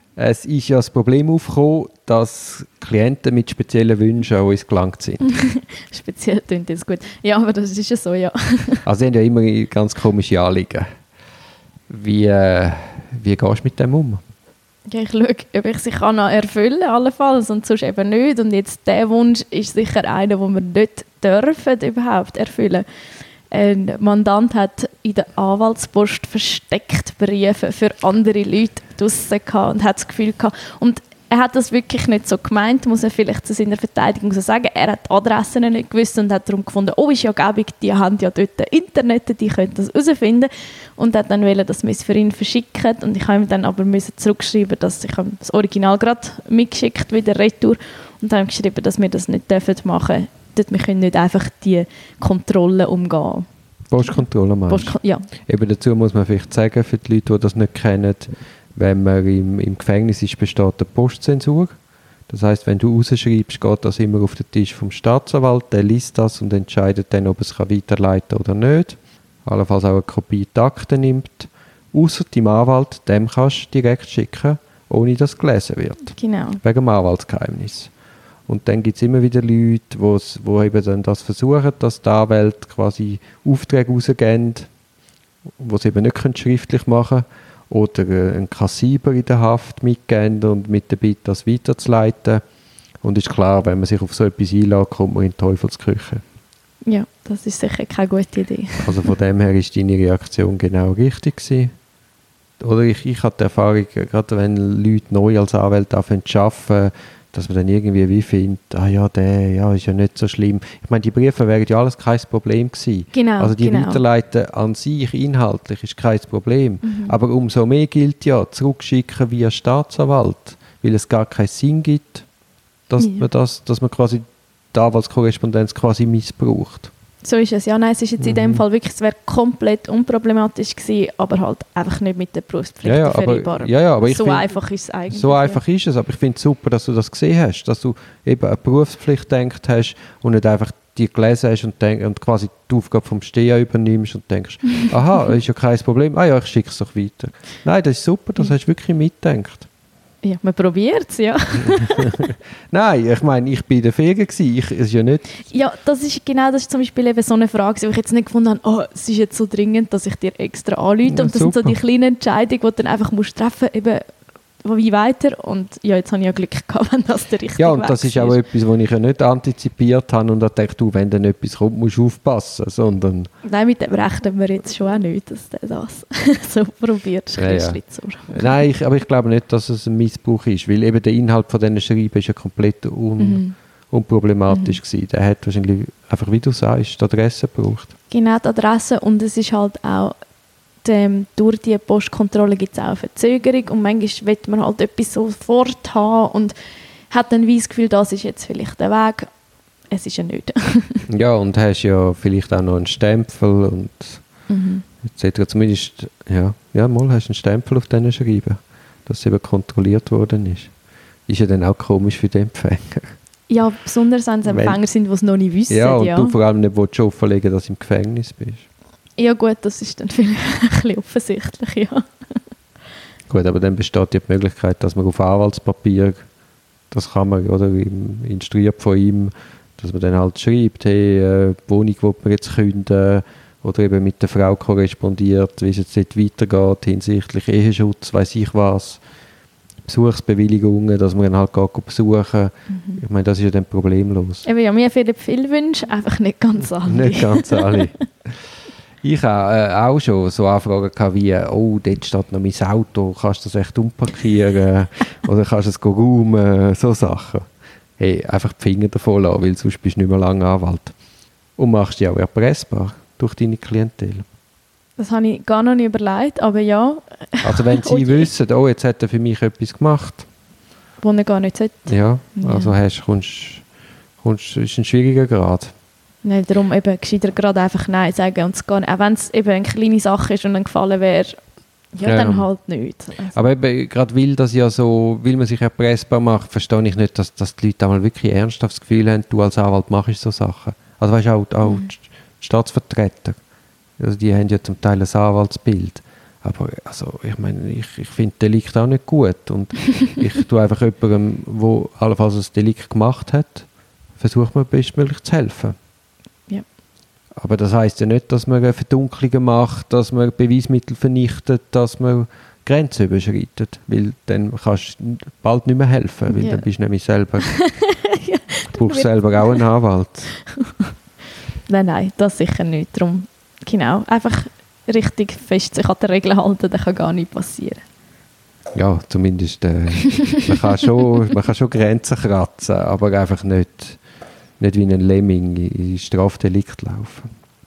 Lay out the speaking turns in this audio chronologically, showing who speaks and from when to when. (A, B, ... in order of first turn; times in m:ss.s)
0:00.2-0:05.3 A
0:05.3-0:08.8 B
0:08.8-0:10.9 A
0:11.9-0:14.2 A
0:14.9-0:22.8 B
0:23.5-0:53.5 B
0:53.9-1:17.9 A
0:54.0-0:55.3 B
1:16.1-1:16.6 B
1:18.5-1:24.7 A
1:25.6-1:32.4 A
1:33.0-1:36.2 A
1:36.8-1:39.1 B
1:38.8-1:41.7 A
1:42.6-2:02.3 A
1:53.1-1:54.0 B
1:56.8-1:57.2 B
2:02.9-2:06.9 A
2:03.0-2:03.3 B
2:07.2-2:15.6 B
2:08.2-2:08.6 A
2:12.8-2:14.5 A
2:15.1-2:29.7 A
2:30.2-2:32.2 B
2:32.2-2:35.4 A
2:35.5-2:48.4 B
2:41.0-2:41.8 A
2:47.6-2:53.3 A
2:53.4-2:58.5 B
2:57.4-3:07.9 A
3:03.2-3:03.6 B
3:04.5-3:04.8 B
3:08.1-3:10.2 B
3:10.8-3:16.6 B
3:17.1-3:19.3 B
3:19.9-3:21.1 B
3:21.1-3:24.3 A
3:24.5-3:24.8 B
3:25.1-3:33.2 A
3:33.5-3:36.4 B
3:34.5-3:34.8 A
3:35.7-3:38.7 A
3:39.2-3:42.4 B
3:43.3-3:46.2 A
3:46.9-3:59.0 A
3:59.8-4:04.5 A
4:02.7-4:03.0 B
4:04.4-4:08.0 B
4:06.8-4:08.4 A
4:09.0-4:21.0 A
4:21.6-4:24.2 A
4:25.0-4:28.3 B
4:27.4-4:30.3 A
4:31.0-4:32.7 B
4:31.9-4:35.7 A
4:36.2-4:43.4 B
4:42.0-4:42.5 A
4:43.3-4:53.4 A
4:51.6-4:51.9 B
4:54.0-5:05.8 A
5:07.4-5:17.9 A
5:16.3-5:16.7 B
5:17.4-5:19.6 B
5:18.7-5:20.4 A
5:21.7-5:27.8 B
5:28.7-5:34.0 A
5:34.6-5:37.3 A